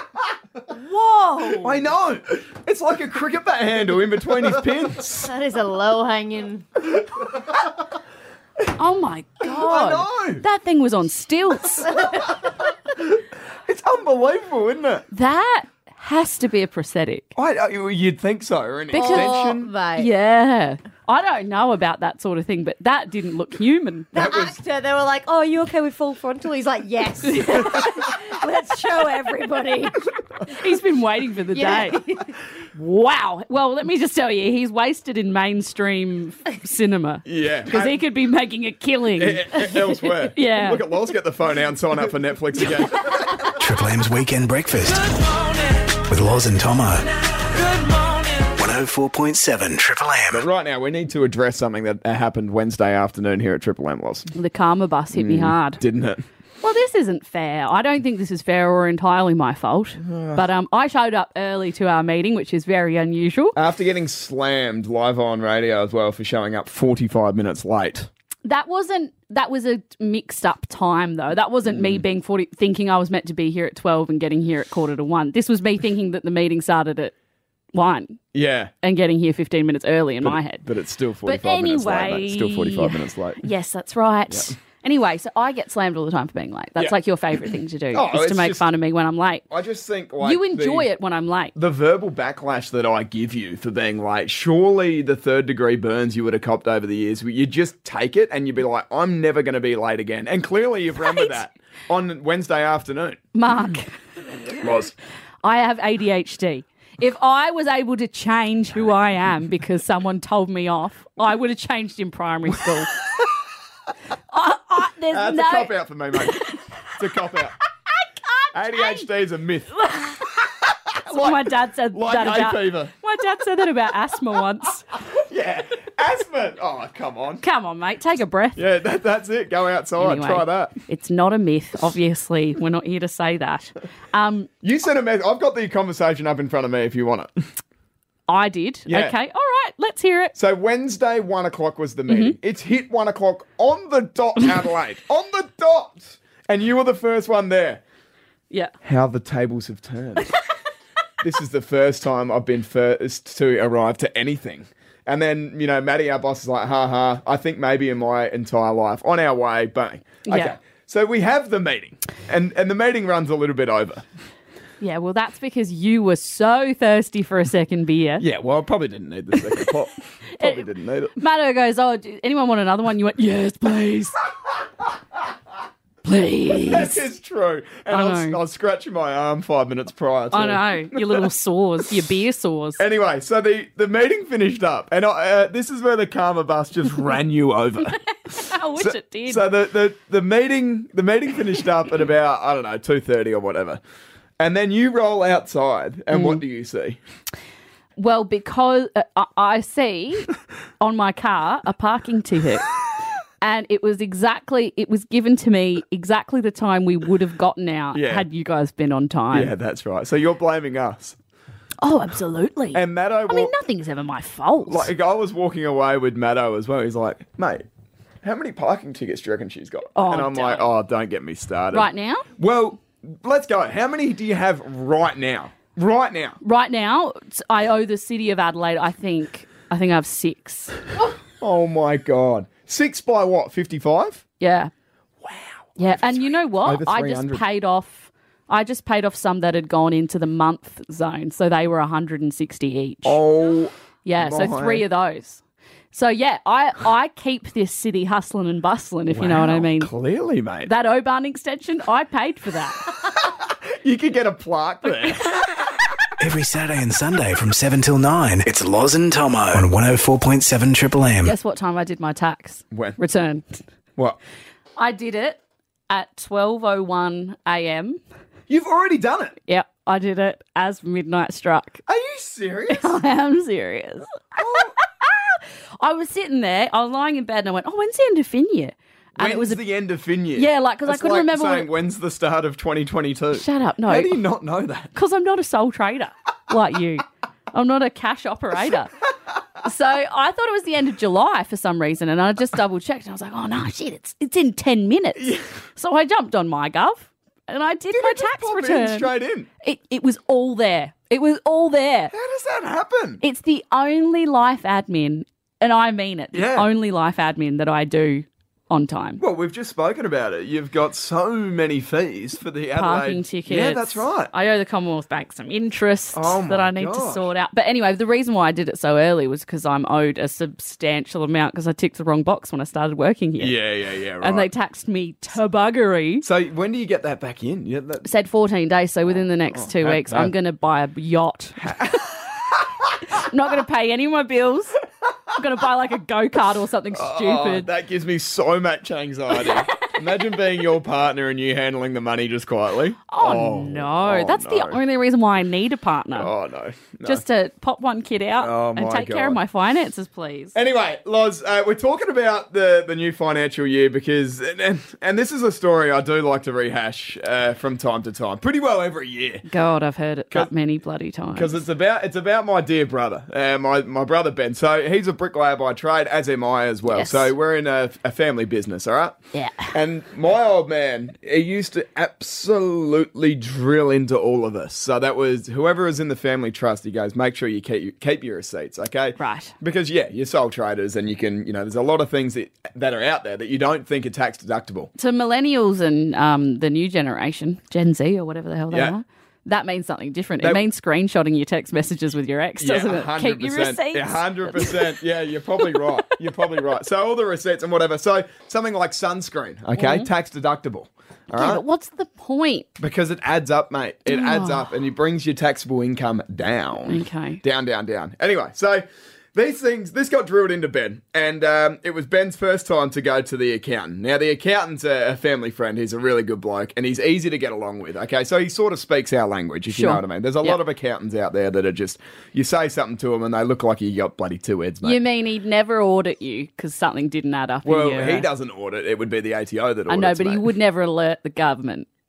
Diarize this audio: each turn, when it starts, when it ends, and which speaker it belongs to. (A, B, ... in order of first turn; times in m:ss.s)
0:00.7-0:01.7 A
0:01.6-0:05.3 B
0:05.2-0:06.8 C
0:08.8-0:12.0 A
0:09.4-0:10.4 B
0:13.0-0:15.0 B
0:15.1-0:17.3 A
0:17.4-0:19.7 B
0:18.9-0:19.4 A
0:18.9-0:20.1 C
0:20.0-0:24.1 A
0:24.1-0:30.0 C
0:24.1-0:24.6 B
0:27.3-0:29.9 A
0:30.4-0:32.0 A
0:31.5-0:32.3 C
0:32.7-0:40.8 A
0:37.2-0:38.0 B
0:39.2-0:43.4 B
0:43.5-0:45.3 D
0:45.9-0:47.1 D
0:48.4-0:50.4 D
0:50.3-0:54.3 B
0:54.4-0:55.8 A
0:55.1-0:56.3 B
0:56.6-1:03.6 A
1:00.0-1:00.4 B
1:03.6-1:08.1 B
1:08.4-1:17.1 A
1:11.7-1:12.0 B
1:17.7-1:18.2 A
1:18.3-1:18.7 B
1:18.8-1:20.7 A
1:20.2-1:23.4 B
1:21.2-1:29.4 A
1:24.3-1:24.6 B
1:27.9-1:28.7 B
1:29.5-1:30.9 B
1:30.2-1:31.5 A
1:31.6-1:43.2 B
1:41.1-1:41.3 A
1:43.4-1:44.0 A
1:44.6-1:44.9 B
1:45.4-1:53.0 A
1:54.3-1:55.7 A
1:55.1-1:57.6 B
1:56.2-1:56.6 A
1:58.5-1:59.9 B
1:58.7-1:59.1 A
1:59.8-2:00.2 A
2:00.4-2:02.9 B
2:01.1-2:04.8 A
2:05.1-2:07.4 B
2:07.4-2:08.6 A
2:08.6-2:10.8 B
2:10.0-2:14.5 A
2:14.6-2:17.4 B
2:18.3-2:20.3 A
2:18.9-2:19.2 B
2:20.4-2:27.8 B
2:22.1-2:22.4 A
2:28.8-2:30.4 B
2:31.2-2:44.0 B
2:40.3-2:40.6 A
2:44.8-2:48.2 A
2:48.2-2:51.2 B
2:49.3-2:49.7 A
2:50.4-2:54.2 A
2:56.0-2:57.0 A
2:56.5-3:01.3 B
2:57.9-2:58.4 A
3:00.3-3:02.8 A
3:02.8-3:08.0 B
3:08.3-3:09.5 A
3:08.8-3:13.8 B
3:14.4-3:17.0 B
3:16.1-3:16.4 A
3:18.0-3:22.7 A
3:23.4-3:29.5 A
3:27.9-3:28.3 B
3:29.3-3:31.2 B
3:31.8-3:34.9 A
3:32.7-3:33.5 B
3:34.7-3:37.7 B
3:38.2-3:46.4 B
3:40.0-3:40.6 A
3:41.7-3:42.3 A
3:46.4-3:50.8 A
3:51.4-3:54.2 B
3:54.4-3:54.7 A
3:55.2-3:57.4 B
3:55.8-4:03.2 A
4:03.0-4:04.9 B
4:04.0-4:09.9 A
4:09.1-4:10.7 B
4:10.6-4:12.8 A
4:13.4-4:15.4 B
4:16.2-4:21.4 D
4:21.2-4:23.6 A
4:22.7-4:23.0 B
4:24.8-4:28.0 A
4:28.5-4:29.4 B
4:29.5-4:31.8 A
4:31.9-4:33.0 B
4:32.7-4:39.6 A
4:34.4-4:34.8 B
4:39.2-4:44.9 B
4:40.4-4:41.7 A
4:43.3-4:44.2 A
4:44.9-4:48.9 A
4:49.6-5:02.1 A
4:55.2-4:55.5 B
4:57.9-4:59.5 B
5:02.1-5:03.2 B
5:03.2-5:09.2 A
5:06.3-5:06.7 B
5:09.2-5:14.3 B
5:12.8-5:23.6 A
5:16.1-5:17.3 B
5:23.4-5:24.5 B
5:24.2-5:26.3 A
5:26.2-5:28.1 B
5:28.0-5:32.1 A
5:29.1-5:30.3 B
5:31.6-5:32.0 B
5:33.1-5:34.8 A
5:35.3-5:37.7 A
5:36.9-5:44.8 B
5:39.4-5:39.9 A
5:43.1-5:46.3 A
5:46.1-5:47.2 B
5:47.0-5:50.6 A
5:48.4-5:49.4 B
5:50.6-5:59.4 B
5:59.5-6:01.6 A
6:01.3-6:09.2 B
6:06.9-6:07.3 A
6:09.3-6:09.8 A
6:09.7-6:24.9 B
6:19.2-6:19.5 A
6:25.0-6:35.0 A
6:28.7-6:29.0 B
6:32.6-6:41.6 B
6:39.8-6:40.1 A
6:41.3-6:42.8 A
6:42.8-7:05.0 B
6:44.1-6:44.7 A
6:46.9-6:47.4 A
6:59.7-7:00.6 A
7:04.8-7:08.3 A
7:07.6-7:10.5 B
7:09.9-7:11.9 A